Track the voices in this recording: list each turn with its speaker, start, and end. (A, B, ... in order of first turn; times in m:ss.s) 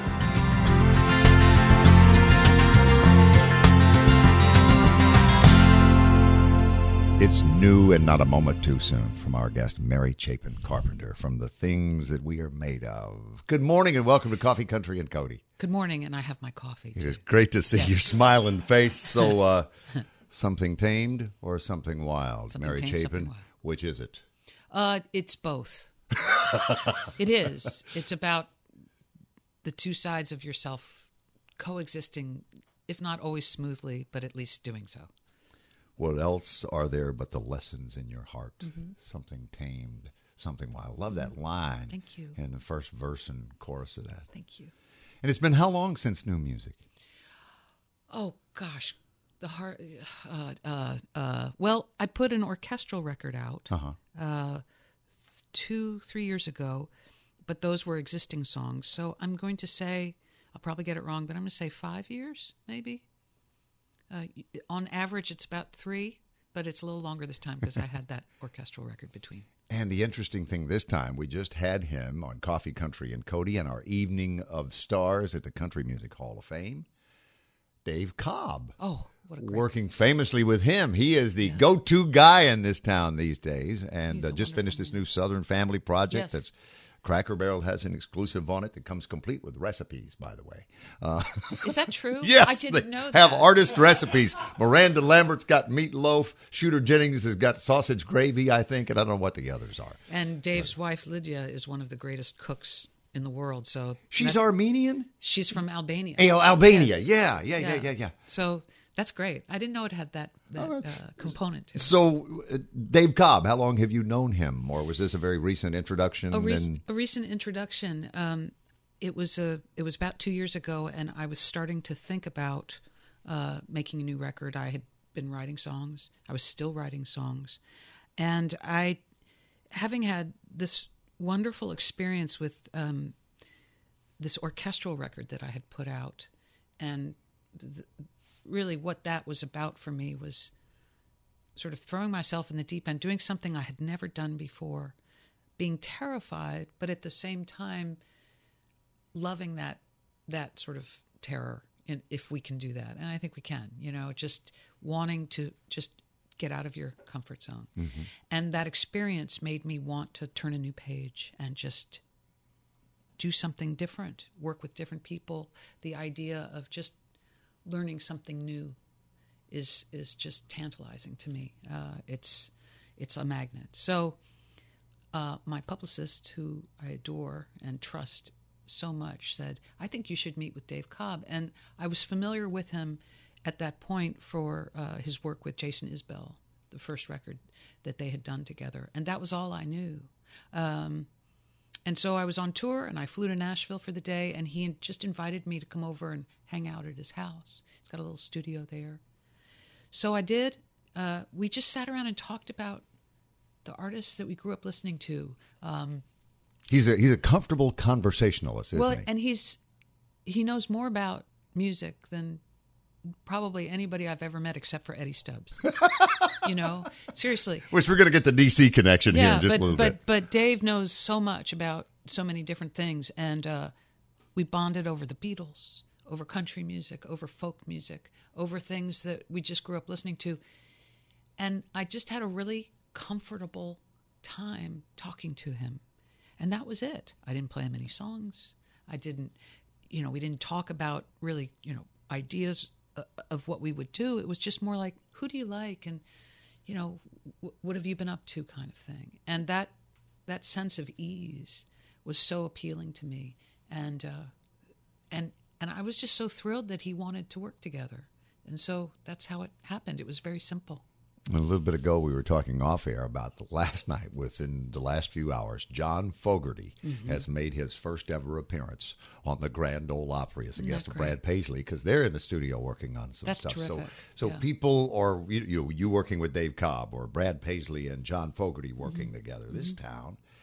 0:07.2-0:15.4 A
0:15.6-0:17.2 B
0:16.9-0:19.7 A
0:20.3-0:24.2 A
0:22.5-0:23.4 B
0:24.7-0:25.9 B
0:26.5-0:26.9 A
0:27.1-0:28.5 B
0:29.6-0:35.1 B
0:36.0-0:44.3 A
0:38.6-0:38.9 B
0:41.9-0:42.4 B
0:44.3-0:44.7 B
0:45.2-0:46.8 A
0:48.1-0:54.6 B
0:53.7-0:54.0 A
0:55.3-0:56.9 B
0:57.4-1:03.0 B
1:04.1-1:09.5 B
1:09.7-1:16.9 A
1:17.8-1:18.8 A
1:18.8-1:19.7 B
1:19.4-1:26.5 A
1:24.1-1:25.0 B
1:26.1-1:26.4 B
1:27.0-1:31.7 A
1:31.6-1:33.5 B
1:32.2-1:40.0 A
1:40.1-1:44.4 B
1:44.1-1:45.1 A
1:45.2-1:51.9 B
1:46.2-1:48.1 A
1:50.6-1:56.8 A
1:56.3-2:07.6 B
2:08.2-2:09.0 B
2:09.7-2:13.2 B
2:14.2-2:17.9 B
2:18.4-2:20.5 B
2:21.6-2:25.0 B
2:25.6-2:28.0 B
2:29.1-2:37.7 B
2:37.8-2:38.0 A
2:38.3-2:42.0 B
2:43.2-2:47.0 B
2:47.6-2:48.8 B
2:49.5-2:54.2 B
2:55.1-3:11.1 B
3:11.8-3:19.0 B
3:19.9-3:22.8 B
3:23.6-3:26.0 B
3:26.7-3:29.1 A
3:28.7-3:29.6 B
3:30.2-3:32.4 B
3:33.2-3:35.7 B
3:35.8-3:36.4 A
3:36.4-3:37.7 B
3:37.7-3:40.0 A
3:39.1-3:43.7 B
3:44.3-3:50.4 B
3:51.4-3:55.8 B
3:56.4-3:59.4 B
3:59.9-4:06.0 B
4:06.6-4:09.7 B
4:10.3-4:14.3 B
4:15.1-4:20.8 B
4:21.3-4:40.2 A
4:26.8-4:27.2 B
4:30.6-4:31.2 B
4:33.2-4:34.4 B